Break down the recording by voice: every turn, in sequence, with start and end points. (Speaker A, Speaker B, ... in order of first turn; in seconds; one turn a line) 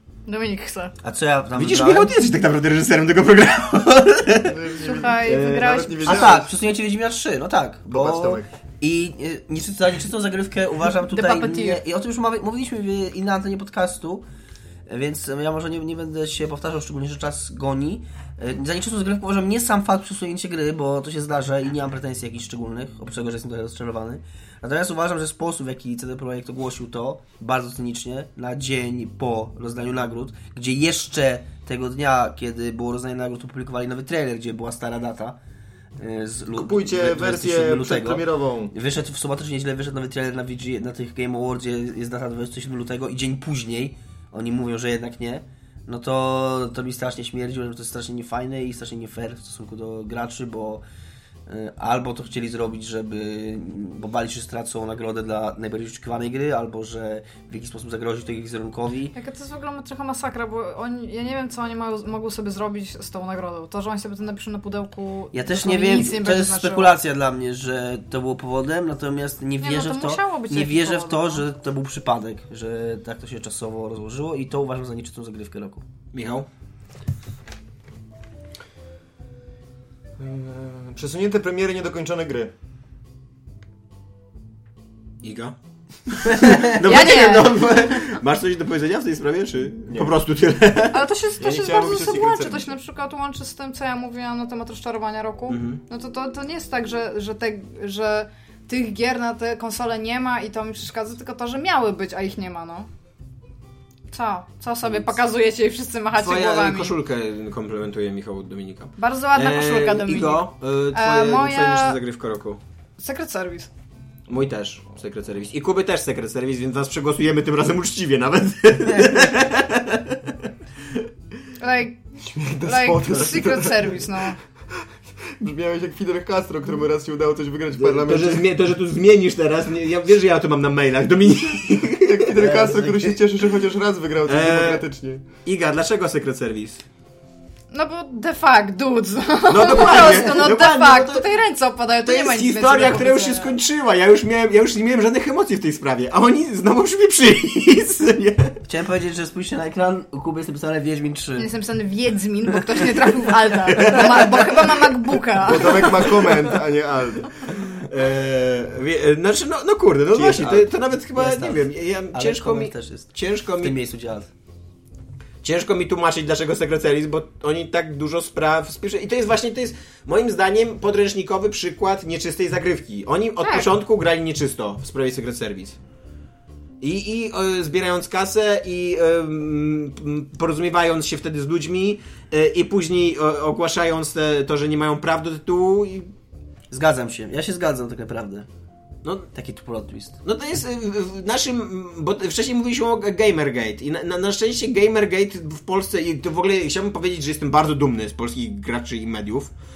Speaker A: 0.3-0.9
Speaker B: 1.0-2.2
Speaker C: 1.5-4.6
Speaker D: 4.5-6.5
Speaker A: 4.8-6.3
Speaker C: 5.2-6.2
Speaker B: 6.1-14.2
Speaker D: 7.9-8.5
Speaker A: 11.1-11.8
Speaker B: 14.9-35.4
Speaker B: 36.0-38.2
Speaker D: 36.5-38.7
Speaker B: 38.7-50.8
Speaker B: 51.5-59.1
Speaker A: 59.1-67.0
Speaker B: 65.3-75.8
Speaker A: 69.6-71.5
Speaker C: 76.1-76.5
Speaker D: 80.2-82.5
Speaker C: 85.2-85.5
Speaker C: 86.1-91.0
Speaker A: 86.8-88.2
Speaker D: 89.9-90.1
Speaker A: 90.9-102.9
Speaker D: 91.4-92.8
Speaker C: 95.5-95.8
Speaker A: 104.1-107.0
Speaker C: 106.2-112.6
Speaker A: 109.0-112.0
Speaker A: 113.0-113.7
Speaker C: 114.3-120.3
Speaker A: 121.6-122.1
Speaker D: 122.2-124.3
Speaker A: 122.6-124.4
Speaker D: 125.4-128.5
Speaker C: 127.8-132.5
Speaker D: 131.9-135.2
Speaker B: 132.4-133.2
Speaker C: 134.3-134.8
Speaker C: 135.4-136.8
Speaker A: 137.7-143.6
Speaker C: 139.5-141.3
Speaker C: 142.0-148.6
Speaker B: 148.7-151.5
Speaker A: 151.4-156.2
Speaker C: 153.8-154.6
Speaker D: 155.4-157.3
Speaker C: 157.5-163.8
Speaker D: 160.1-160.7
Speaker B: 161.2-164.3
Speaker C: 165.4-175.8
Speaker A: 173.4-173.7
Speaker C: 176.8-186.1
Speaker B: 186.7-188.5
Speaker C: 189.0-189.3
Speaker B: 189.3-190.2
Speaker C: 190.2-199.5